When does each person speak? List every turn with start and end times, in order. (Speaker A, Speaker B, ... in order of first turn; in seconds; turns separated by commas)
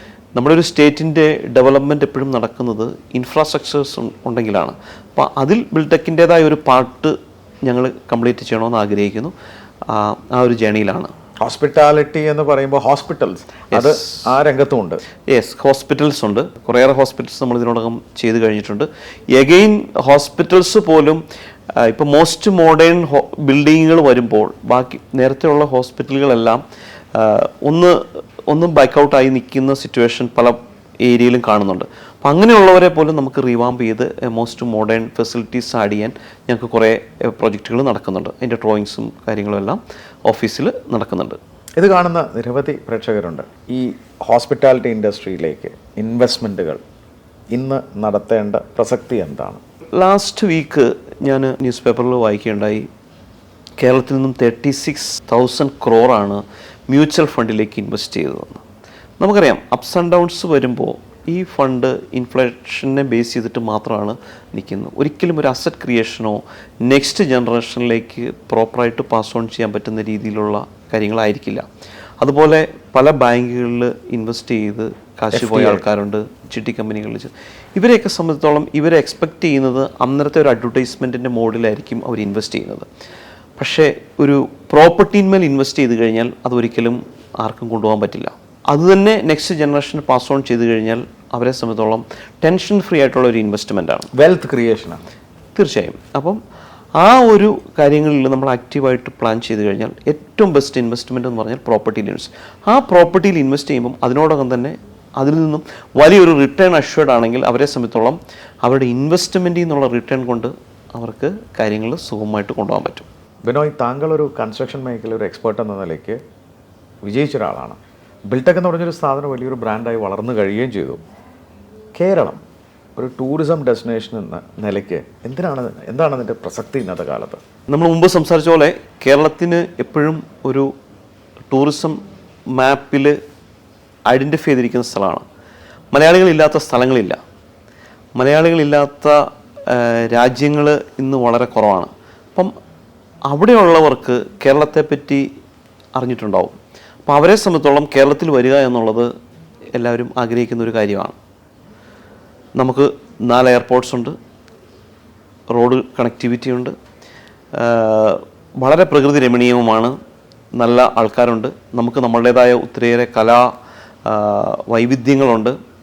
Speaker A: 0.3-9.3, Speaker A: 9.9-11.1, Speaker B: 11.4-15.0, Speaker A: 13.7-14.3, Speaker A: 15.3-21.2, Speaker A: 21.7-26.6, Speaker A: 27.1-41.4, Speaker B: 41.8-46.8, Speaker B: 47.5-49.6, Speaker A: 50.0-52.9, Speaker A: 53.8-58.6, Speaker A: 59.2-71.7, Speaker A: 72.2-82.9, Speaker B: 75.3-75.8, Speaker A: 83.6-94.1, Speaker B: 94.1-95.0, Speaker A: 95.5-96.4, Speaker A: 97.0-113.0, Speaker B: 113.5-116.2, Speaker B: 117.0-121.0, Speaker B: 121.9-122.4, Speaker B: 123.0-127.4, Speaker A: 127.7-130.7, Speaker A: 131.5-132.0, Speaker A: 132.5-133.2, Speaker A: 134.1-135.2, Speaker A: 135.9-137.2, Speaker A: 138.2-142.5, Speaker A: 143.3-145.3, Speaker A: 145.9-149.1, Speaker A: 149.7-151.2, Speaker A: 152.6-154.2, Speaker A: 155.5-156.7, Speaker A: 157.5-159.9, Speaker A: 160.6-163.5, Speaker A: 164.1-165.6